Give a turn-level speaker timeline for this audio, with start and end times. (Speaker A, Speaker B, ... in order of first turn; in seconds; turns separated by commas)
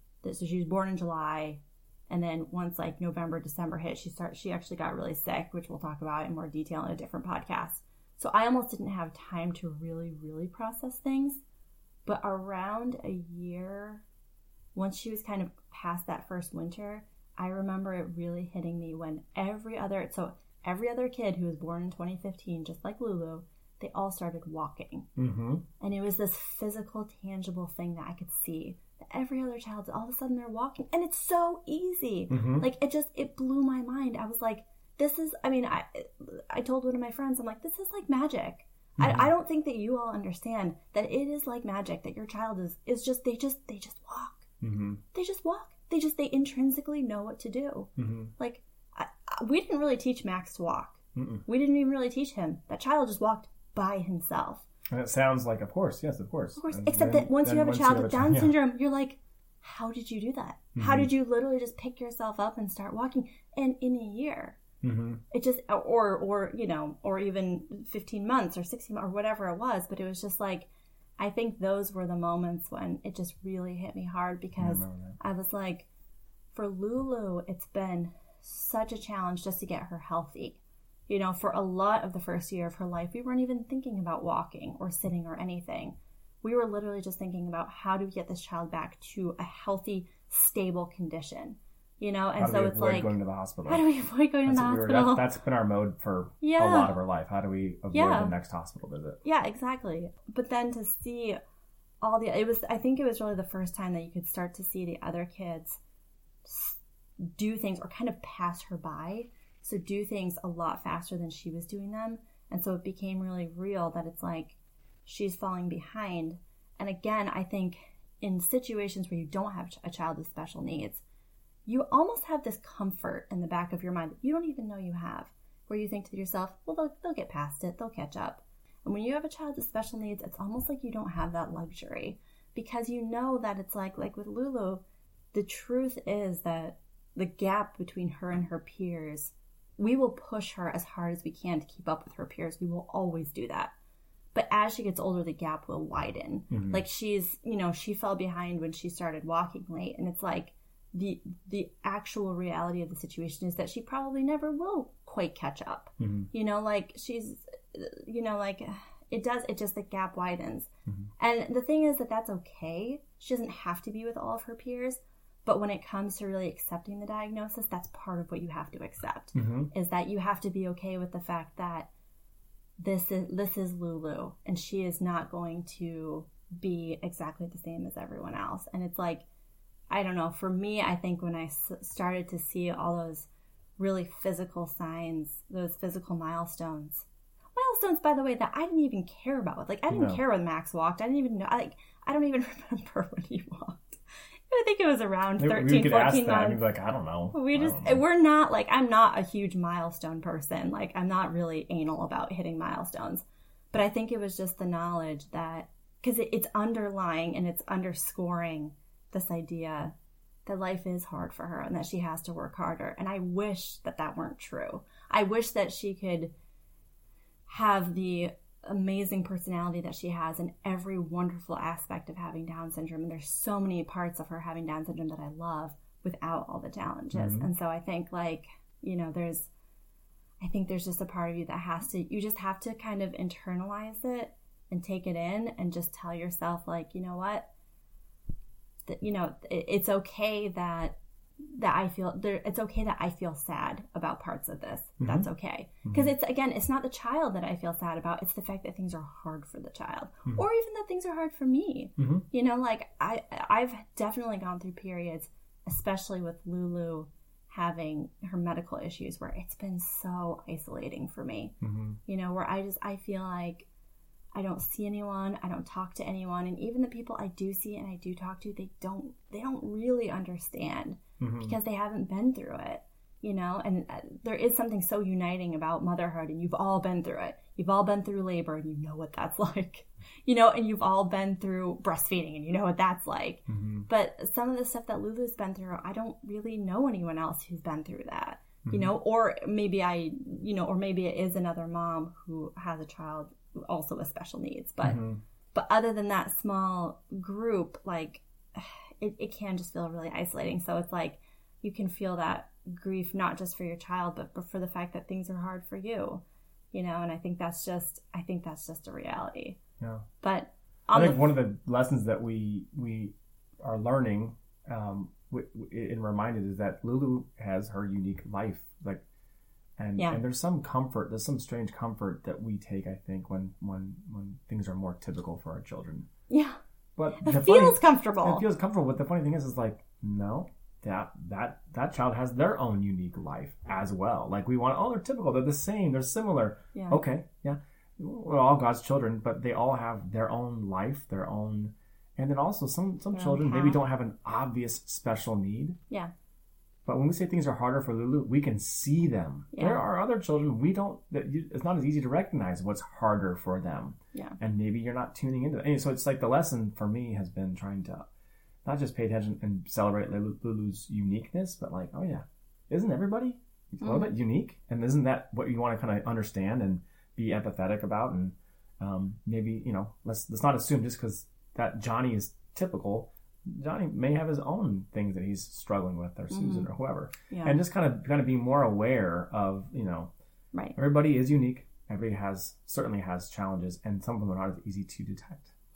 Speaker A: 0.2-11.4, Speaker A: 12.1-14.0, Speaker A: 14.8-25.1, Speaker B: 25.2-25.6, Speaker A: 25.8-44.5, Speaker B: 32.3-32.7, Speaker B: 39.0-39.3, Speaker B: 44.6-45.0, Speaker A: 45.1-54.6, Speaker B: 48.0-48.3, Speaker B: 51.1-51.4, Speaker B: 54.9-58.5, Speaker A: 56.6-64.6, Speaker B: 60.8-61.1, Speaker B: 64.8-65.2, Speaker A: 65.3-70.7, Speaker A: 71.2-75.9, Speaker B: 74.6-75.2, Speaker A: 76.5-93.1, Speaker B: 92.4-93.9, Speaker A: 93.7-95.3, Speaker B: 94.5-99.2, Speaker A: 96.4-96.9, Speaker A: 97.9-98.3, Speaker A: 99.2-101.4, Speaker A: 102.0-105.8, Speaker A: 106.4-121.0, Speaker A: 121.7-143.7, Speaker A: 144.3-171.9, Speaker B: 146.5-146.8, Speaker B: 156.0-156.3, Speaker B: 169.3-169.7, Speaker A: 172.8-179.2, Speaker A: 179.9-194.0, Speaker B: 189.9-190.2, Speaker A: 194.5-196.6, Speaker B: 195.4-198.0, Speaker A: 197.3-209.9, Speaker A: 210.5-216.3, Speaker A: 217.5-229.5, Speaker B: 227.1-227.5, Speaker A: 230.4-237.5, Speaker A: 238.9-261.6, Speaker B: 245.0-245.3, Speaker B: 245.8-246.1, Speaker B: 252.0-252.2, Speaker B: 261.6-262.0, Speaker A: 262.1-263.7, Speaker A: 264.4-295.0, Speaker B: 271.2-271.6, Speaker B: 283.5-283.9, Speaker B: 288.6-288.9, Speaker B: 294.8-295.2, Speaker A: 295.5-309.6, Speaker B: 309.8-310.1, Speaker A: 310.2-311.2, Speaker B: 310.9-319.0, Speaker B: 319.8-326.1, Speaker A: 326.3-326.6, Speaker B: 327.0-345.8, Speaker A: 327.2-328.4, Speaker A: 336.7-337.0, Speaker A: 343.1-343.8, Speaker B: 346.9-358.1, Speaker A: 349.5-349.8, Speaker B: 358.6-380.1, Speaker A: 363.8-364.1, Speaker A: 376.3-376.7, Speaker A: 377.3-377.6, Speaker B: 380.8-385.5